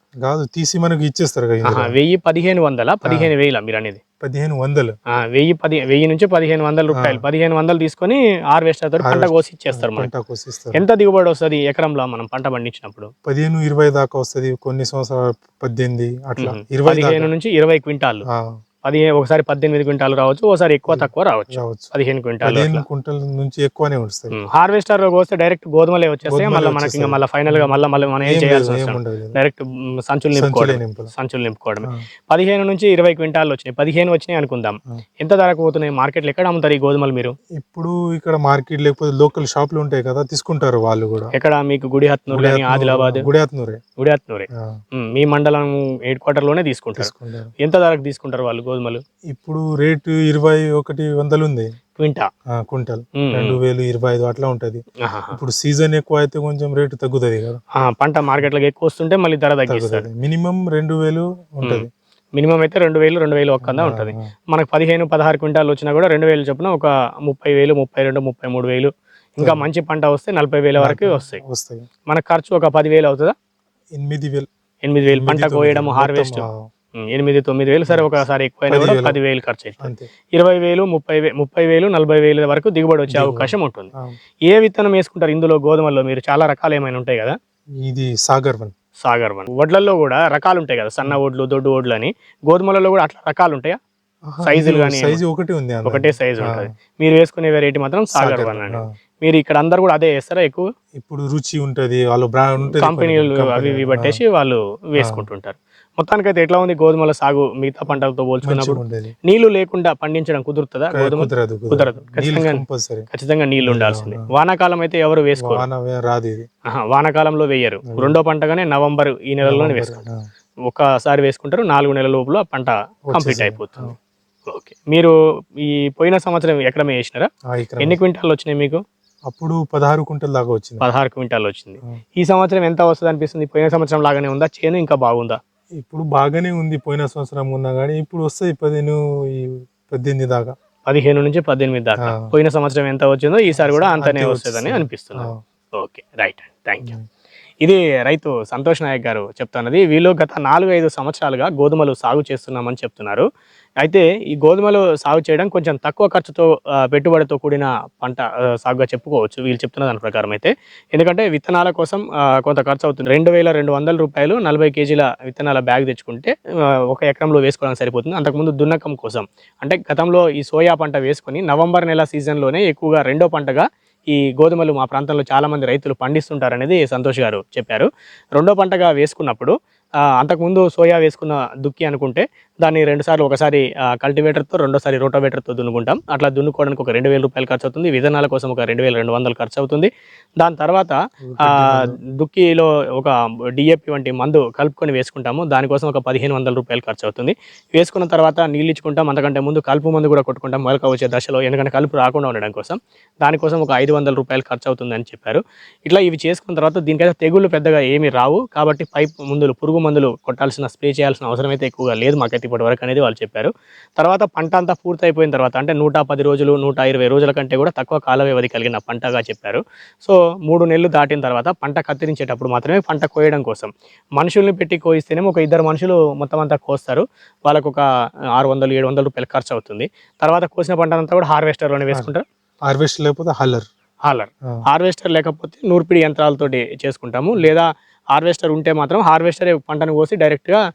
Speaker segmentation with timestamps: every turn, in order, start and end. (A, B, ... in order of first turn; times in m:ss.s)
0:00.2-0:02.0 A
0:01.6-0:04.0 B
0:04.2-0:04.9 A
0:05.1-0:10.1 B
0:07.0-0:07.2 A
0:09.0-0:10.8 A
0:10.7-0:13.1 B
0:13.2-0:17.3 A
0:16.4-0:18.2 B
0:18.3-0:18.6 A
0:18.8-0:22.8 B
0:20.9-0:21.9 A
0:22.4-0:24.4 A
0:24.3-0:37.3 B
0:26.3-0:29.4 A
0:30.3-0:31.1 A
0:37.6-0:41.3 A
0:41.3-0:43.3 B
0:42.3-0:43.8 A
0:44.0-0:49.0 B
0:47.0-0:47.5 A
0:49.3-0:51.7 A
0:52.0-0:52.3 B
0:52.6-0:57.6 A
0:53.2-0:53.6 B
0:55.0-0:55.4 B
0:57.8-1:00.1 B
0:59.7-1:01.9 A
1:02.4-1:11.4 B
1:03.6-1:04.3 A
1:09.4-1:09.7 A
1:10.8-1:11.9 A
1:12.1-1:13.3 B
1:13.9-1:14.5 A
1:14.8-1:16.4 B
1:15.1-1:16.7 A
1:17.0-1:23.9 B
1:17.9-1:19.2 A
1:19.8-1:20.1 A
1:23.1-1:24.2 A
1:24.5-1:27.4 B
1:27.8-1:28.7 A
1:29.0-1:33.8 B
1:34.3-1:36.7 A
1:34.4-1:35.2 B
1:35.8-1:40.7 B
1:38.1-1:38.8 A
1:41.0-1:44.2 A
1:42.6-1:55.6 B
1:45.0-1:45.2 A
1:48.0-1:49.1 A
1:50.9-1:53.1 A
1:53.6-1:54.2 A
1:55.4-1:56.4 A
1:56.7-2:00.0 B
1:57.9-1:58.2 A
1:59.4-2:00.2 A
2:00.7-2:03.9 B
2:03.1-2:03.9 A
2:04.5-2:05.1 B
2:05.6-2:08.8 B
2:07.5-2:08.0 A
2:09.3-2:10.8 A
2:10.8-2:15.4 B
2:15.8-2:20.5 A
2:20.8-2:27.0 B
2:22.0-2:22.3 A
2:23.5-2:25.4 A
2:27.6-2:33.2 B
2:33.8-2:46.3 B
2:46.9-2:59.5 B
3:00.2-3:47.8 B
3:11.2-3:12.0 A
3:48.4-3:52.2 B
3:52.6-3:53.6 A
3:54.0-4:00.6 B